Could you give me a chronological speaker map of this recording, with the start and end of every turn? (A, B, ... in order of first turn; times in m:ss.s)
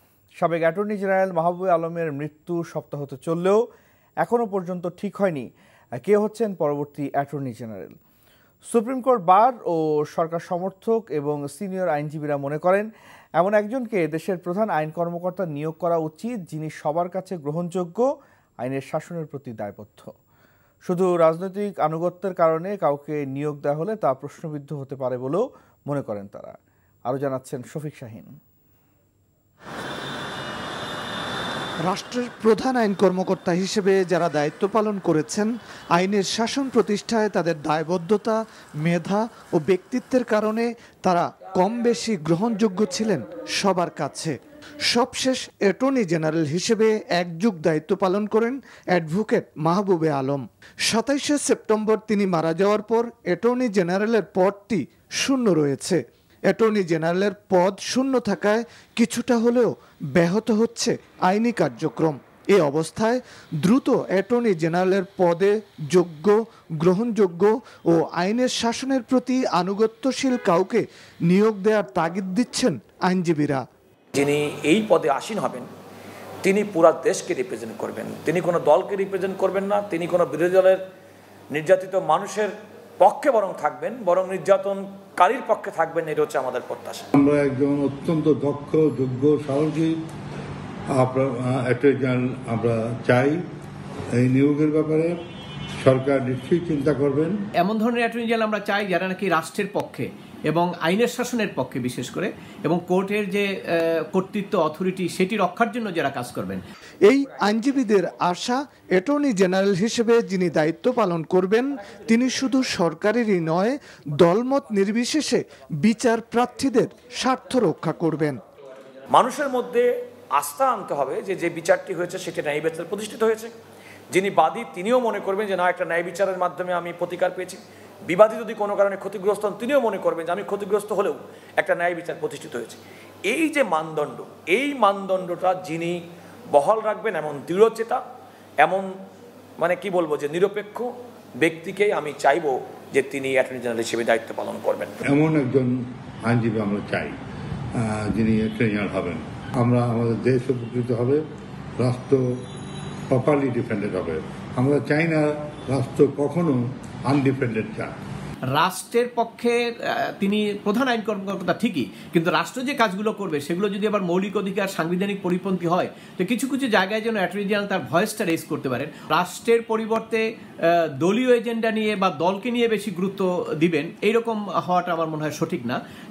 0:00.4-0:03.6 A
0:04.2-0:05.5 A
0:06.0-0:08.0 A
0:08.7-0:12.9 A
0:13.4-0:18.1 A
0:18.6-0:20.1 A
0:20.8-0:28.4 A
0:31.9-0:44.3 B
0:44.9-0:56.0 B
0:56.5-1:13.6 B
1:14.2-1:15.7 C
1:16.4-1:20.8 C
1:21.5-1:27.0 C
1:27.2-1:30.0 D
1:30.9-1:33.4 D
1:34.2-1:35.2 D
1:35.8-1:37.4 D
1:37.6-1:43.5 E
1:44.1-1:46.6 E
1:47.1-1:58.4 B
1:59.1-2:03.5 C
2:04.1-2:18.0 C
2:18.6-2:18.9 C
2:19.6-2:20.9 C
2:21.4-2:25.0 C
2:25.1-2:27.2 D
2:27.8-2:31.2 D
2:31.8-2:32.2 D
2:33.1-2:37.9 D
2:38.5-2:39.5 E
2:40.2-2:50.2 E
2:51.0-2:55.8 E